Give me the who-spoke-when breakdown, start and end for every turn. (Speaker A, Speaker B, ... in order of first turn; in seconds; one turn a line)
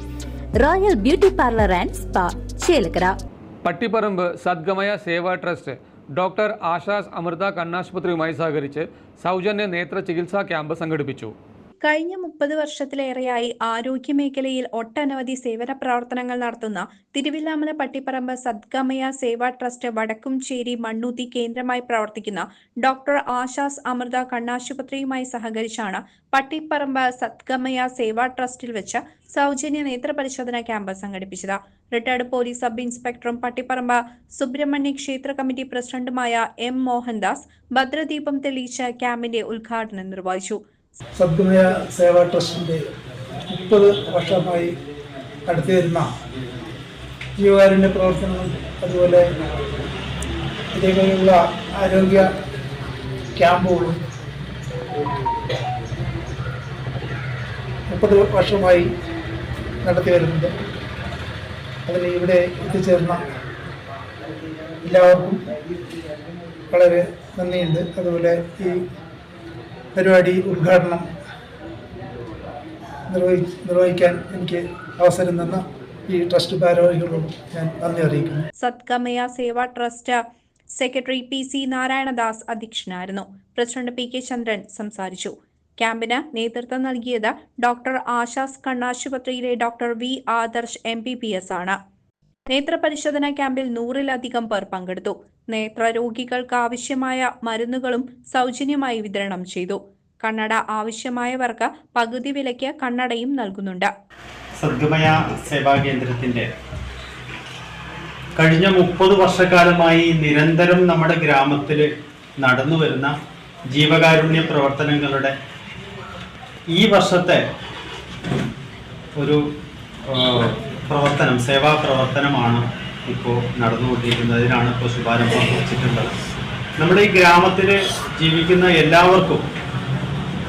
Speaker A: 0.6-3.1
Speaker B: 3.6-11.3
Speaker C: 11.8-40.6
Speaker D: 41.2-42.8
Speaker D: 43.5-44.7
Speaker D: 45.5-46.1
Speaker D: 47.4-49.3
Speaker D: 50.7-52.3
Speaker D: 53.4-54.0
Speaker D: 57.9-58.9
Speaker D: 59.8-60.5
Speaker D: 61.9-63.2
Speaker D: 64.8-65.4
Speaker D: 66.7-68.8
Speaker D: 69.9-71.0
Speaker D: 73.1-78.4
Speaker C: 78.6-91.8
Speaker C: 92.5-103.9
Speaker E: 104.6-106.5
Speaker E: 108.4-111.8
Speaker E: 112.4-113.1
Speaker E: 113.7-115.3
Speaker E: 116.7-117.4
Speaker E: 120.1-126.1
Speaker E: 126.8-129.4